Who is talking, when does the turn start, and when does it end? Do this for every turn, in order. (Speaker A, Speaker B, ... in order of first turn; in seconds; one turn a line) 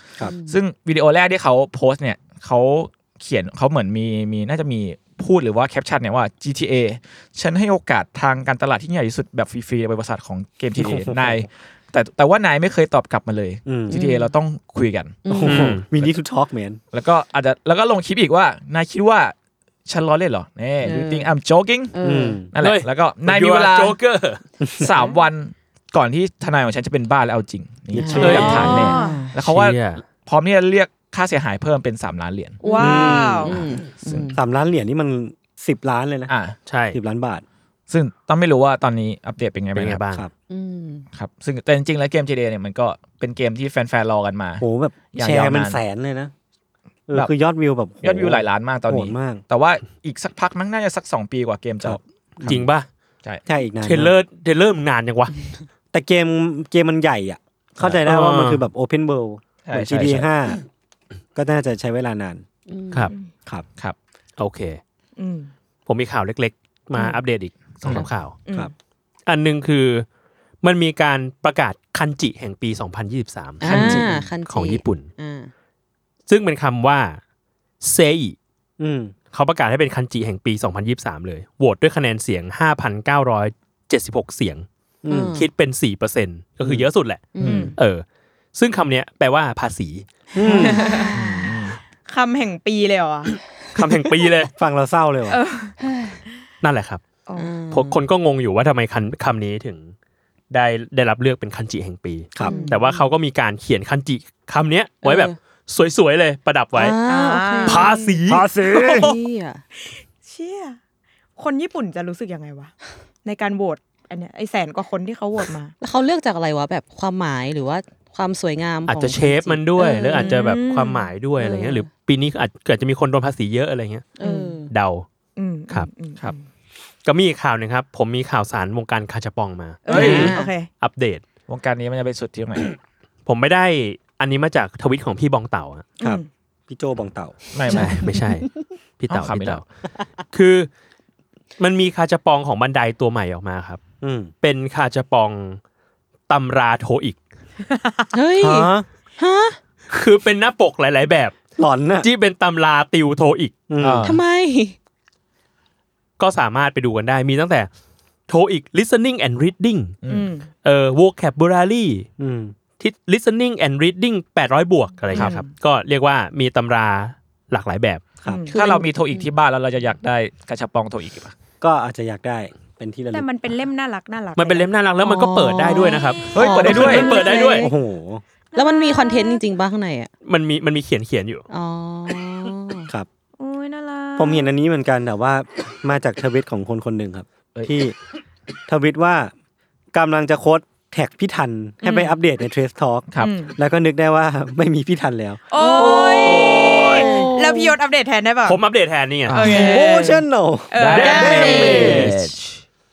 Speaker A: 0.2-0.6
Speaker B: 0.5-15.2
Speaker C: 10.8-11.4
Speaker C: 13.7-14.0
Speaker A: 13.9-14.3
Speaker A: 15.2-15.7
Speaker C: 15.3-16.8
Speaker D: 15.4-15.9
Speaker B: 16.9-19.3
Speaker B: 19.9-21.9
Speaker A: 20.8-21.3
Speaker A: 21.9-22.4
Speaker C: 22.0-22.5
Speaker B: 22.5-24.0
Speaker D: 22.6-24.4
Speaker C: 24.6-24.9
Speaker B: 24.8-32.6
Speaker A: 24.8-25.1
Speaker C: 27.9-28.6
Speaker A: 28.0-29.3
Speaker D: 28.1-30.0
Speaker E: 28.2-29.2
Speaker A: 32.6-34.4
Speaker E: 32.6-33.5
Speaker C: 32.8-33.6
Speaker D: 33.5-33.9
Speaker C: 34.3-36.3
Speaker B: 36.3-36.6
Speaker D: 36.7-37.0
Speaker C: 36.9-37.4
Speaker B: 37.9-40.0
Speaker D: 39.8-40.3
Speaker A: 40.5-41.0
Speaker B: 41.1-45.8
Speaker C: 44.6-46.3
Speaker C: 47.1-49.4
Speaker B: 48.0-52.0
Speaker C: 51.8-52.7
Speaker D: 52.5-52.9
Speaker C: 53.5-54.1
Speaker D: 53.8-55.4
Speaker C: 55.9-60.6
Speaker D: 57.8-58.6
Speaker B: 59.6-60.3
Speaker C: 61.4-62.4
Speaker A: 62.7-63.1
Speaker D: 64.4-64.8
Speaker E: 65.2-65.5
Speaker D: 65.9-68.4
Speaker A: 67.0-67.2
Speaker B: 67.8-68.1
Speaker E: 68.5-68.7
Speaker D: 69.3-70.1
Speaker D: 70.6-75.1
Speaker A: 73.6-75.5
Speaker B: 73.6-74.2
Speaker D: 76.3-77.2
Speaker D: 77.8-78.4
Speaker C: 78.8-79.1
Speaker D: 79.3-84.7
Speaker C: 85.0-85.4
Speaker A: 85.1-85.5
Speaker D: 85.3-88.0
Speaker A: 87.3-87.7
Speaker E: 87.4-87.7
Speaker D: 88.5-90.1
Speaker C: 90.4-90.8
Speaker A: 90.4-91.6
Speaker E: 90.5-91.2
Speaker B: 91.1-91.8
Speaker E: 92.1-93.3
Speaker D: 93.8-94.5
Speaker C: 94.5-95.4
Speaker E: 95.3-95.8
Speaker A: 95.8-96.2
Speaker D: 96.6-97.0
Speaker A: 97.4-98.0
Speaker D: 97.7-99.9
Speaker D: 100.5-107.0
Speaker C: 102.3-102.6
Speaker A: 102.4-103.1
Speaker A: 105.0-105.4
Speaker A: 106.8-108.2
Speaker E: 107.1-108.0
Speaker D: 107.6-108.5
Speaker C: 108.3-109.1
Speaker E: 108.7-109.1
Speaker A: 108.8-109.6
Speaker E: 109.8-110.8
Speaker E: 111.4-112.7
Speaker E: 113.2-115.7
Speaker A: 115.8-120.5
Speaker D: 118.9-124.1
Speaker E: 120.1-121.1
Speaker A: 121.4-121.9
Speaker A: 124.2-124.7
Speaker E: 124.2-124.5
Speaker D: 124.7-125.1
Speaker E: 125.4-126.4
Speaker D: 127.0-131.2
Speaker E: 129.8-130.7
Speaker B: 129.9-130.3
Speaker A: 129.9-130.5
Speaker B: 131.5-132.8
Speaker D: 133.3-135.9
Speaker E: 136.0-136.3
Speaker C: 136.0-137.4
Speaker B: 137.5-138.1
Speaker D: 137.7-138.5
Speaker A: 137.7-138.6
Speaker D: 139.0-139.7
Speaker B: 139.1-139.6
Speaker D: 140.3-140.7
Speaker D: 141.6-143.8
Speaker C: 144.0-144.3
Speaker D: 144.4-145.6
Speaker D: 146.3-147.2
Speaker E: 147.7-148.1
Speaker A: 148.1-149.6
Speaker C: 148.4-148.9
Speaker D: 149.9-151.4
Speaker C: 151.6-152.1
Speaker D: 152.0-153.6
Speaker C: 153.7-154.1
Speaker B: 153.8-154.2
Speaker A: 154.0-154.8
Speaker D: 156.2-157.7
Speaker D: 158.3-159.9
Speaker B: 160.0-160.3
Speaker E: 160.1-160.5
Speaker D: 160.6-162.1
Speaker C: 162.2-162.6
Speaker D: 162.8-168.1
Speaker E: 165.1-165.5
Speaker E: 168.3-168.6
Speaker A: 168.5-169.3
Speaker B: 168.5-171.3
Speaker C: 171.6-173.3
Speaker E: 173.1-174.7
Speaker D: 174.4-177.7
Speaker A: 175.0-177.7
Speaker B: 176.3-177.1
Speaker E: 177.1-177.5
Speaker C: 177.5-178.2
Speaker E: 178.5-179.4
Speaker A: 178.6-180.1
Speaker D: 180.2-181.5
Speaker A: 181.5-182.9
Speaker E: 183.4-184.5
Speaker C: 184.2-188.0
Speaker C: 188.7-189.3
Speaker C: 189.9-196.5
Speaker E: 191.8-192.1
Speaker E: 193.2-193.5
Speaker E: 195.5-198.6
Speaker A: 195.6-197.8
Speaker D: 196.4-197.0
Speaker D: 198.4-199.5
Speaker B: 199.3-199.7
Speaker E: 199.3-201.9
Speaker C: 199.5-202.1
Speaker B: 200.8-202.3
Speaker D: 200.9-202.3
Speaker A: 201.0-202.2